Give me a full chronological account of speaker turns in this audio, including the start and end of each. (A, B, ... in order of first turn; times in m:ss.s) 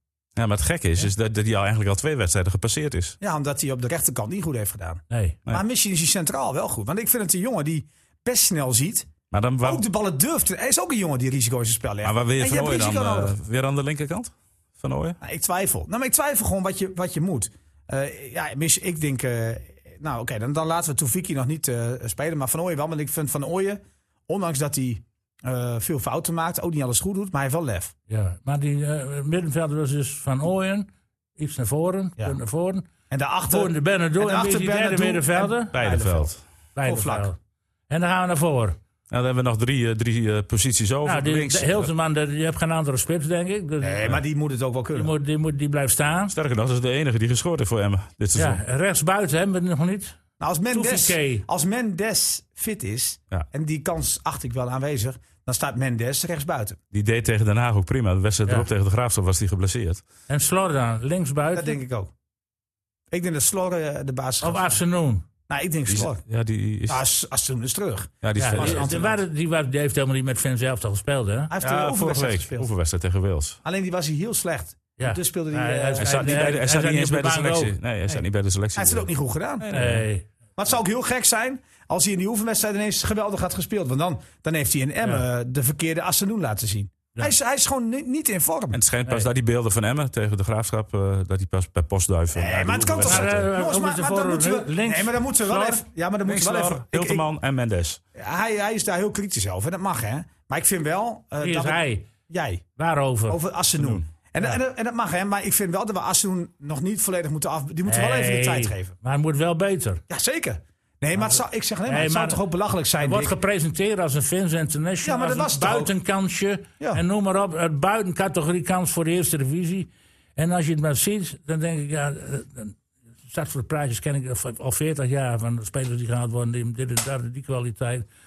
0:00.4-0:03.2 A
0:03.2-0:09.1 B
0:05.1-0:05.4 C
0:09.3-0:09.8 A
0:09.6-0:13.4 B
0:12.0-0:15.2 A
0:15.2-0:27.9 B
0:28.1-0:32.9 C
0:33.1-0:36.3 B
0:33.5-0:35.7 C
0:35.7-0:36.4 A
0:36.8-0:37.4 C
0:36.8-0:37.3 B
0:37.9-0:38.8 C
0:39.1-0:41.9 A
0:41.0-0:44.2 C
0:43.8-0:45.1 B
0:44.9-0:46.3 C
0:46.3-0:48.6 A
0:48.4-0:50.2 C
0:50.4-0:56.8 B
0:50.7-0:51.4 C
0:56.9-1:00.0 A
1:00.3-1:01.8 C
1:01.5-1:02.1 B
1:03.1-1:04.8 B
1:04.4-1:05.2 C
1:05.5-1:06.2 B
1:05.9-1:07.0 A
1:06.9-1:09.2 B
1:08.2-1:09.0 A
1:08.4-1:11.5 C
1:11.5-1:12.7 B
1:11.6-1:13.6 A
1:13.6-1:16.4 B
1:15.0-1:17.7 C
1:16.0-1:19.1 A
1:18.7-1:19.7 B
1:19.6-1:20.0 A
1:19.7-1:20.2 C
1:20.6-1:28.8 B
1:28.7-1:33.5 A
1:32.3-1:37.2 B
1:33.0-1:35.8 C
1:36.2-1:38.0 A
1:38.1-1:42.6 B
1:41.4-1:42.1 C
1:42.8-1:43.4 C
1:43.3-1:48.9 B
1:43.8-1:44.0 A
1:47.8-1:50.0 C
1:50.1-1:53.3 B
1:51.8-1:52.4 C
1:53.0-2:02.7 C
1:55.0-1:55.9 B
2:03.3-2:08.1 C